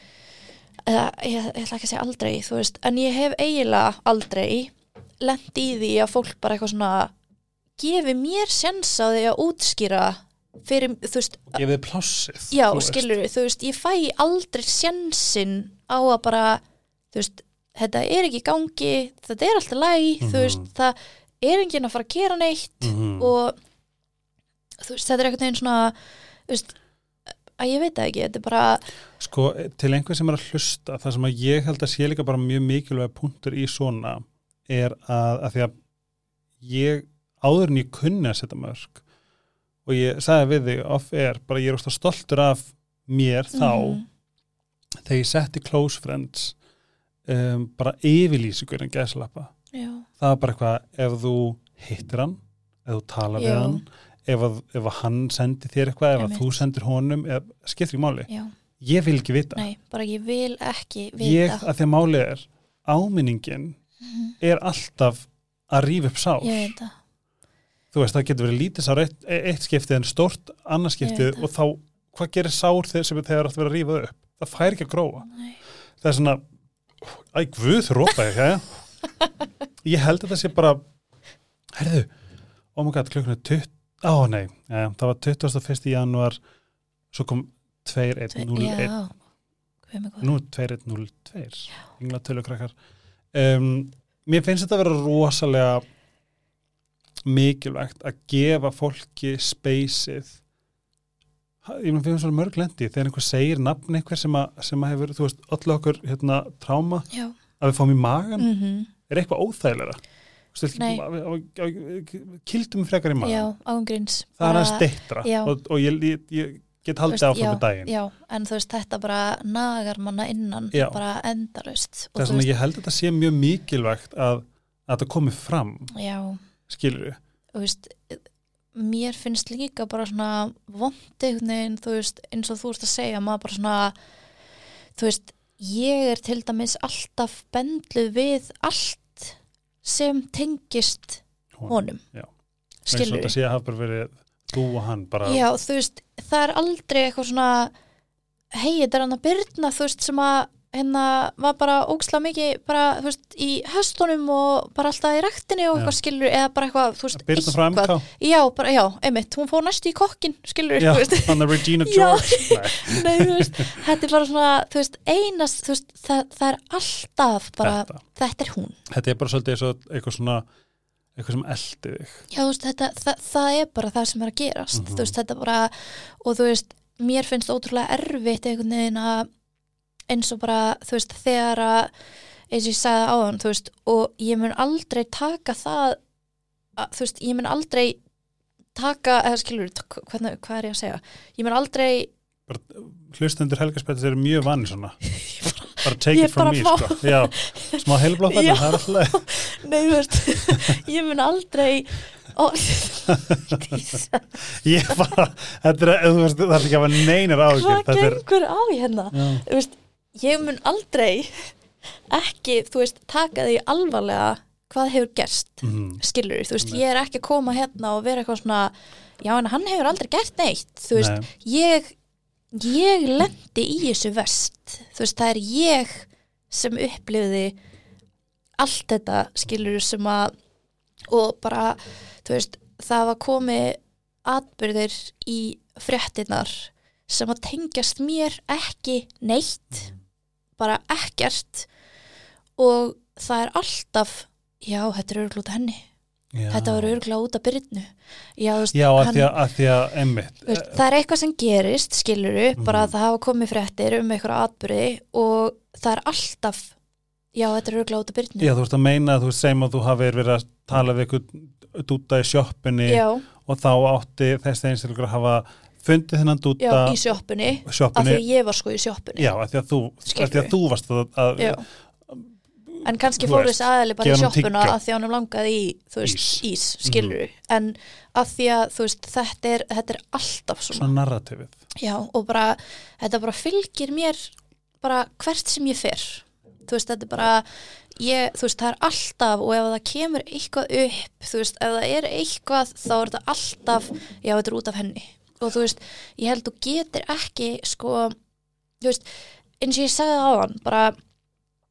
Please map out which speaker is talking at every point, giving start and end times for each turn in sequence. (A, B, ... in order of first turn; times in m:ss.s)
0:00.9-0:07.1 A
0:07.8-0:11.6 A
0:11.5-0:13.1 B
0:12.5-0:16.6 A
0:17.1-0:23.6 A
0:20.2-0:20.7 B
0:22.8-0:23.3 B
0:24.8-0:26.0 A
0:26.5-0:26.7 A
0:27.6-0:28.8 A
0:29.2-0:35.7 B
0:36.6-0:39.0 B
0:39.9-0:44.0 B
0:43.5-0:44.1 A
0:45.0-0:46.6 B
0:47.3-0:49.5 B
0:49.7-0:50.1 A
0:50.2-0:58.3 B
0:53.4-0:53.8 A
0:56.2-0:56.5 A
0:58.8-0:59.7 B
0:59.6-1:01.7 A
1:01.2-1:03.8 B
1:04.0-1:04.4 A
1:04.4-1:06.7 B
1:06.4-1:07.0 A
1:07.9-1:15.3 B
1:11.0-1:11.4 A
1:15.3-1:15.6 A
1:16.0-1:16.4 B
1:17.0-1:18.8 B
1:19.8-1:20.8 B
1:21.7-1:22.1 B
1:22.8-1:26.4 B
1:27.1-1:28.9 B
1:28.3-1:29.1 A
1:29.9-1:30.3 A
1:30.2-1:32.8 B
1:33.3-1:35.8 B
1:37.2-1:40.4 B
1:41.6-1:47.1 B
1:47.1-1:47.4 A
1:47.6-1:48.5 B
1:48.4-1:48.9 A
1:49.1-1:50.0 B
1:50.5-1:53.5 B
1:50.8-1:51.0 A
1:53.2-1:55.5 A
1:54.4-1:57.9 B
1:57.1-2:02.5 A
2:00.7-2:01.0 B
2:02.2-2:05.9 B
2:05.9-2:06.4 A
2:06.7-2:07.2 B
2:07.5-2:08.2 A
2:08.8-2:13.9 A
2:15.0-2:22.0 A
2:21.6-2:22.3 B
2:22.9-2:23.3 A
2:22.9-2:25.5 B
2:25.2-2:27.7 A
2:28.5-2:48.8 A
2:37.1-2:38.0 B
2:40.8-2:43.8 B
2:47.6-2:48.0 B
2:48.9-2:50.5 B
2:51.2-2:52.3 B
2:52.3-2:59.3 A
2:54.7-2:55.1 B
3:00.1-3:01.9 A
3:02.5-3:06.0 A
3:06.8-3:08.0 A
3:08.8-3:12.1 A
3:12.5-3:15.0 B
3:15.1-3:25.0 A
3:15.8-3:19.3 B
3:20.4-3:20.8 B
3:23.1-3:28.2 B
3:27.5-3:31.5 A
3:29.1-3:29.4 B
3:32.1-3:42.0 A
3:35.6-3:36.0 B
3:41.0-3:41.3 B
3:42.5-3:47.6 A
3:48.6-3:50.3 A
3:51.1-3:59.9 A
4:00.6-4:01.7 A
4:02.6-4:05.9 A
4:06.3-4:07.0 B
4:06.5-4:09.3 A
4:08.7-4:10.8 B
4:10.5-4:16.7 A
4:12.6-4:12.9 B
4:17.3-4:18.5 A
4:18.4-4:27.1 B
4:22.9-4:23.2 A
4:26.6-4:29.3 A
4:27.6-4:28.2 B
4:29.2-4:34.8 B
4:30.1-4:30.5 A
4:31.4-4:31.6 A
4:32.8-4:40.9 A
4:36.0-4:37.2 B
4:40.7-4:41.5 B
4:41.8-4:58.2 A
4:59.6-5:01.0 A